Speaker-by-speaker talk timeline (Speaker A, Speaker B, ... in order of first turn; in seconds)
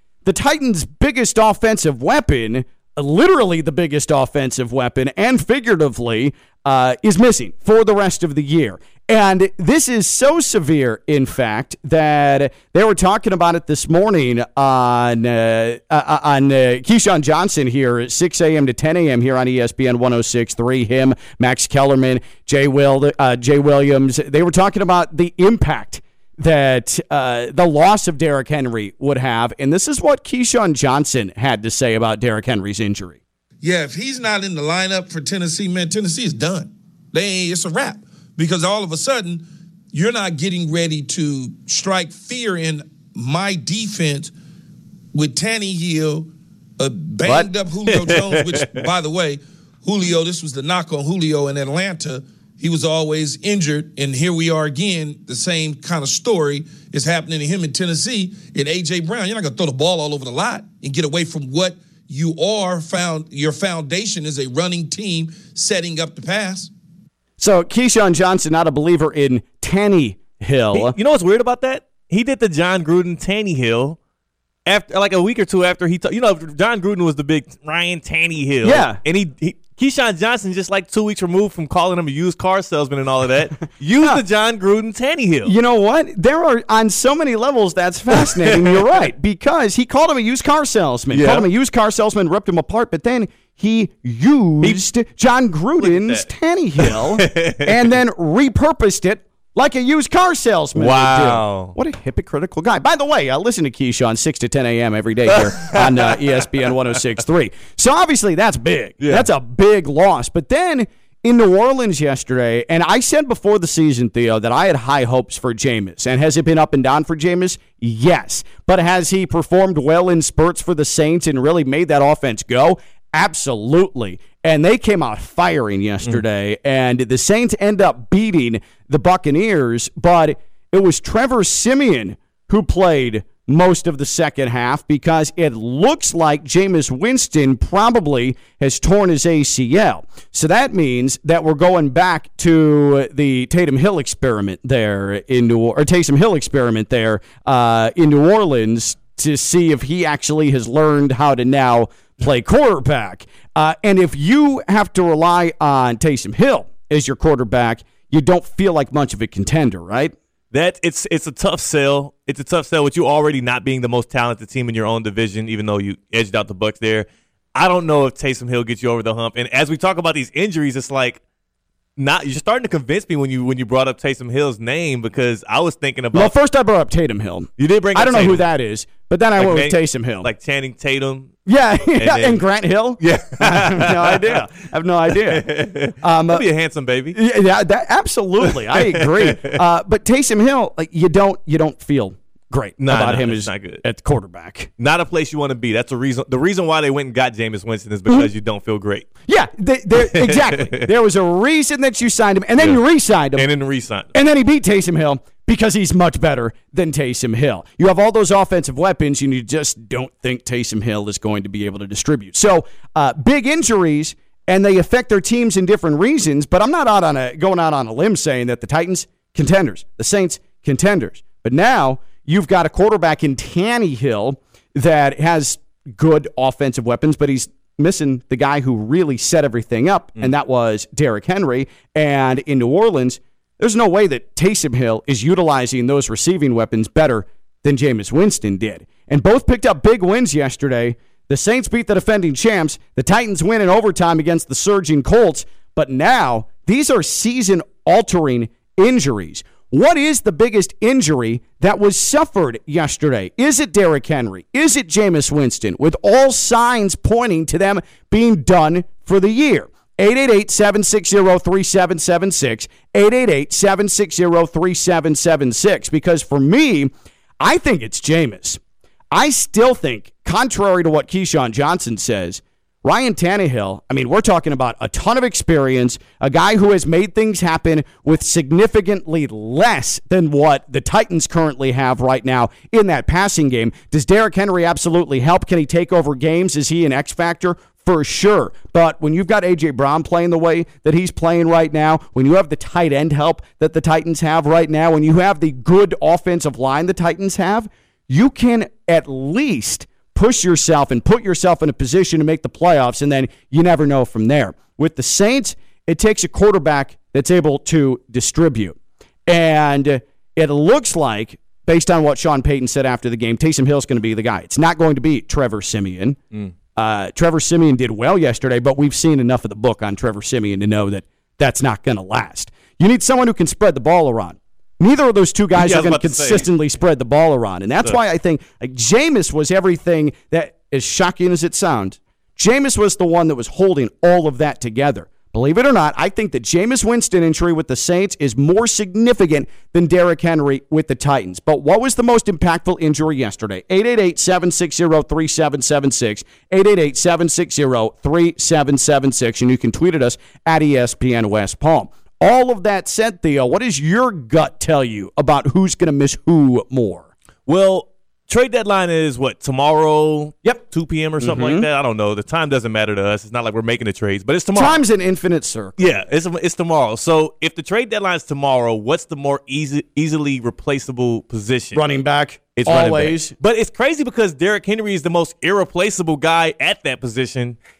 Speaker A: 0.2-33.2, 67.4-70.9, 78.6-79.0, 85.4-160.1, 176.1-180.3, 181.4-186.4, 187.1-194.7, 199.3-203.5, 204.1-268.6, 269.1-316.2, 316.8-357.1, 361.2-361.7, 364.5-365.8, 371.7-373.3
Speaker B: 33.6-44.3, 45.1-66.7
Speaker C: 48.1-48.8, 70.7-74.0, 74.7-85.5, 88.4-88.8, 91.1-91.5, 95.8-96.2, 96.9-97.7, 100.7-101.7, 105.6-106.3, 109.0-109.3, 160.5-171.2, 172.0-176.3, 177.6-178.5, 179.4-181.3, 181.9-182.4, 183.0-184.4, 185.1-187.2, 188.7-189.6, 192.8-193.8, 194.8-199.1, 200.1-200.9, 203.3-204.1, 325.5-326.5, 357.5-364.8, 365.8-371.8, 372.6-377.6